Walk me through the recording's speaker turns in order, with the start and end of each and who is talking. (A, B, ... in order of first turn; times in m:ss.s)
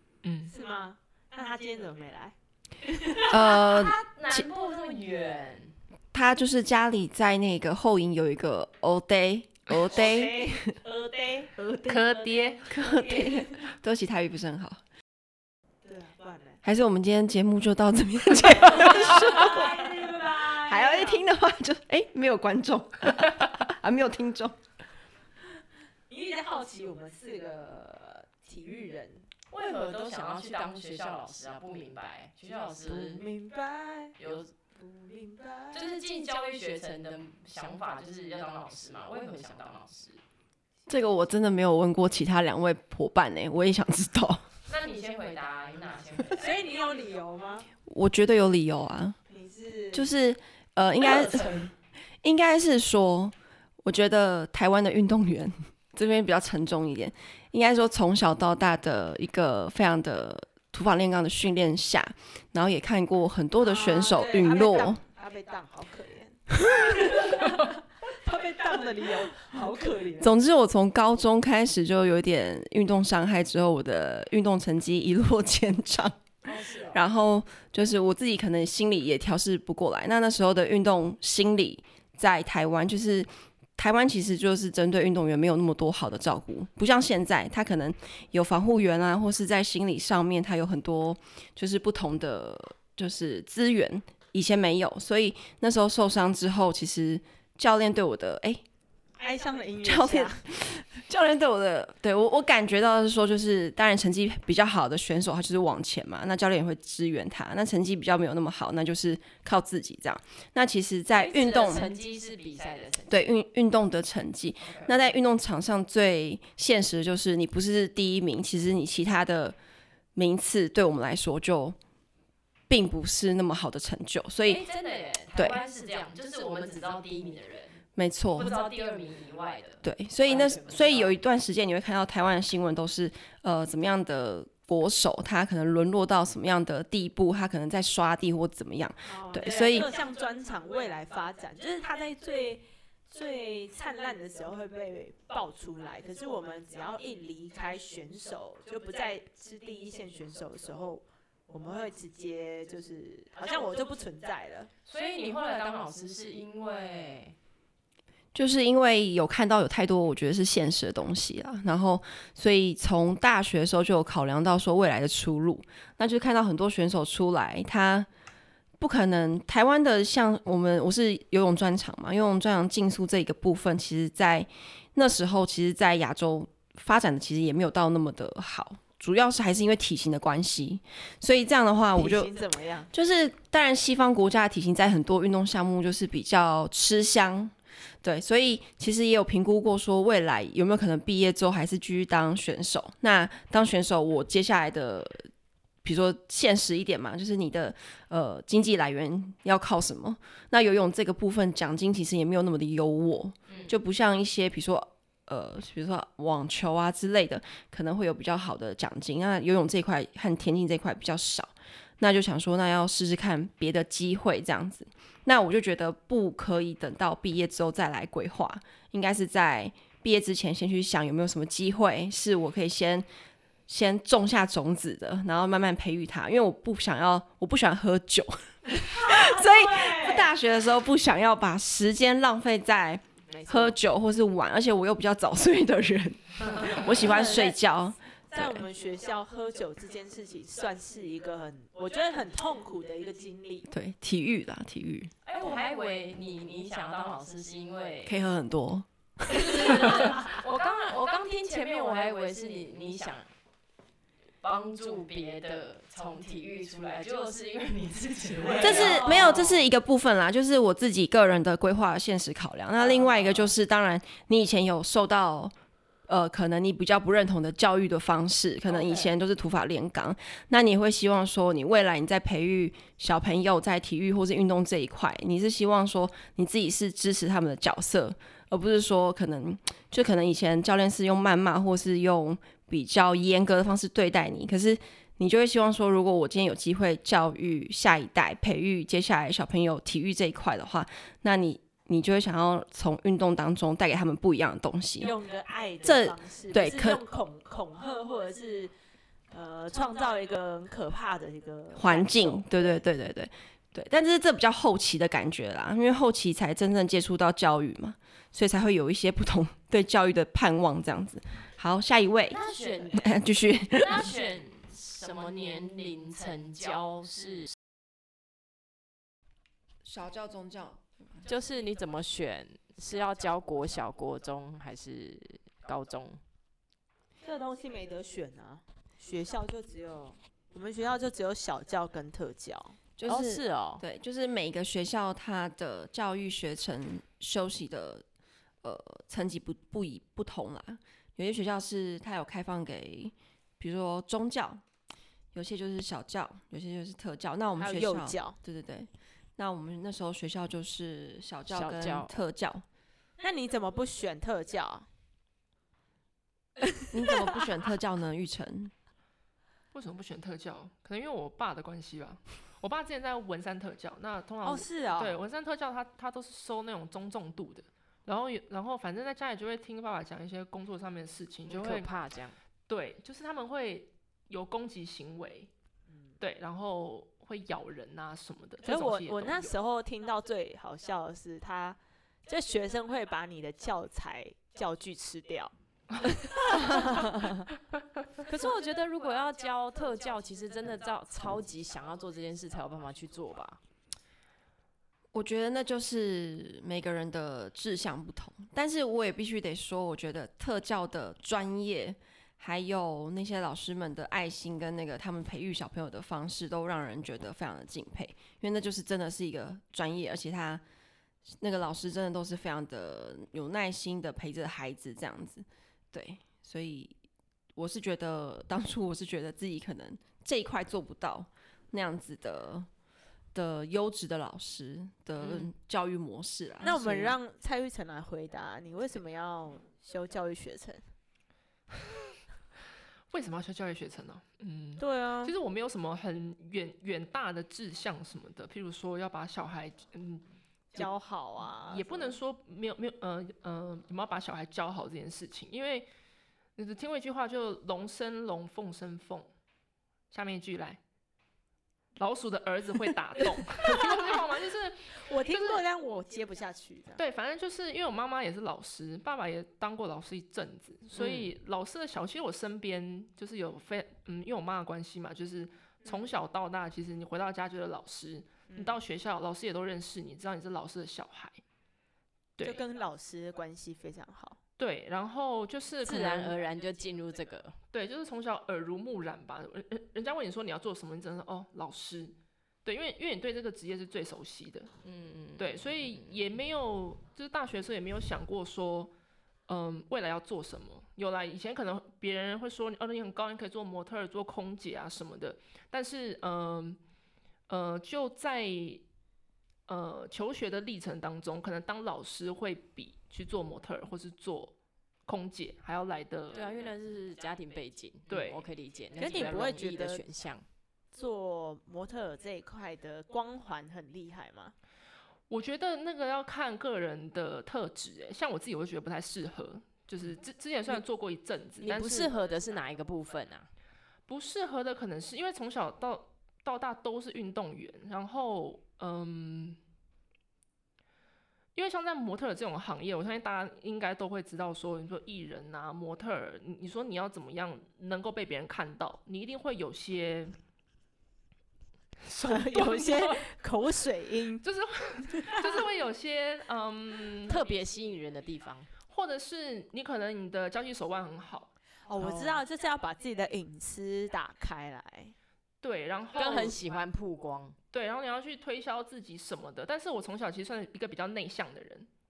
0:00.2-0:00.5 A
0:00.5-0:03.9 B
0:03.3-0:04.4 C
0:03.6-0:05.8 D
0:06.1-0:10.7 C
0:09.9-0:13.7 B
0:11.9-0:12.7 A
0:12.7-0:14.8 C
0:15.8-0:16.6 B
0:16.6-0:19.9 C
0:18.6-0:21.2 B
0:20.5-0:24.6 C
0:26.1-0:29.3 B
0:29.5-0:33.2 D
0:32.8-0:34.2 B
0:34.2-0:34.5 D
0:34.7-0:35.9 B
0:35.7-0:40.2 D
0:40.9-0:44.4 C
0:44.7-0:46.4 D
0:46.4-0:47.7 B
0:47.9-0:49.2 C
0:49.3-0:50.1 B
0:49.9-0:51.5 C
0:51.1-0:51.7 B
0:52.2-1:05.0 C
1:03.6-1:10.3 B
1:10.2-1:16.2 C
1:16.5-1:17.0 B
1:16.5-1:17.0 D
1:16.9-1:38.6 C
1:39.2-1:40.4 B
1:39.8-1:51.9 C
1:51.1-1:53.3 D
1:53.1-1:59.6 C
1:54.6-1:55.0 D
2:00.2-2:01.8 C
2:02.7-2:04.6 C
2:04.5-2:07.8 D
2:08.0-2:08.6 C
2:08.4-2:11.1 D
2:09.8-2:19.9 C
2:19.1-2:34.7 B
2:34.9-2:37.4 D
2:38.3-2:48.1 C
2:48.8-3:02.4 C
3:02.0-3:02.9 B
3:02.9-3:15.3 C
3:15.8-3:43.1 C
3:23.5-3:23.8 D
3:43.7-3:58.6 C
3:48.9-3:50.3 B
3:53.3-3:53.8 B
3:57.0-3:57.5 B
3:57.0-3:57.5 D
3:58.3-4:03.7 B
4:03.7-4:05.1 C
4:05.2-4:08.2 D
4:08.1-4:09.8 C
4:09.3-4:13.3 D
4:14.4-4:19.7 D
4:18.5-4:19.3 B
4:18.6-4:25.6 C
4:22.8-4:23.5 D
4:26.1-4:55.1 C
4:28.7-4:29.1 D
4:55.0-4:58.7 B
4:55.8-4:57.0 C
4:59.3-5:02.8 B
5:01.7-5:12.4 C
5:12.3-5:13.2 D
5:12.9-5:14.1 C
5:13.8-5:17.5 D
5:19.8-5:21.2 C
5:21.2-5:26.2 D
5:27.2-5:32.8 B
5:33.0-5:38.0 C
5:33.1-5:33.8 D
5:38.6-5:44.6 C
5:45.3-5:52.6 C
5:47.6-5:48.4 B
5:51.5-5:52.2 D
5:53.2-5:54.9 B
5:56.9-5:58.7 C
5:59.7-6:11.9 A
6:04.4-6:05.2 B
6:11.5-6:12.4 D
6:12.7-6:15.5 A
6:16.2-6:19.6 A
6:18.6-6:25.5 B
6:26.0-6:27.4 B
6:28.3-6:33.6 D
6:35.1-6:50.6 C
6:51.3-6:57.0 C
6:57.6-7:02.7 C
7:03.3-7:07.2 C
7:05.2-7:05.5 A
7:06.6-7:10.8 B
7:13.1-7:20.2 A
7:14.8-7:15.3 B
7:20.7-7:22.2 B
7:20.8-7:25.9 A
7:26.6-7:29.3 A
7:30.1-7:30.8 A
7:32.0-7:35.6 A
7:33.6-7:34.2 B
7:35.0-7:37.0 B
7:37.0-7:51.4 A
7:41.0-7:41.3 D
7:45.8-7:46.1 B
7:48.5-7:48.8 B
7:52.4-7:52.6 A
7:52.4-7:54.4 B
7:54.6-7:56.4 A
7:55.8-7:57.6 D
7:57.7-8:04.7 A
8:04.8-8:06.2 D
8:05.4-8:08.9 A
8:09.5-8:16.8 A
8:17.5-8:18.8 A
8:19.7-8:24.6 A
8:25.1-8:26.4 A
8:26.3-8:30.4 D
8:28.1-8:28.4 A
8:29.0-8:30.0 B
8:30.9-8:34.6 B
8:35.3-8:42.1 A
8:41.6-8:43.5 D
8:44.1-8:49.6 A
8:51.6-9:00.4 A
9:02.0-9:03.2 A
9:02.3-9:04.4 B
9:04.4-9:07.4 A
9:05.2-9:05.6 B
9:07.3-9:08.7 D
9:08.9-9:11.5 A
9:11.9-9:15.2 B
9:12.0-9:12.4 D
9:15.6-9:16.6 A
9:16.2-9:17.6 D
9:17.7-9:21.9 A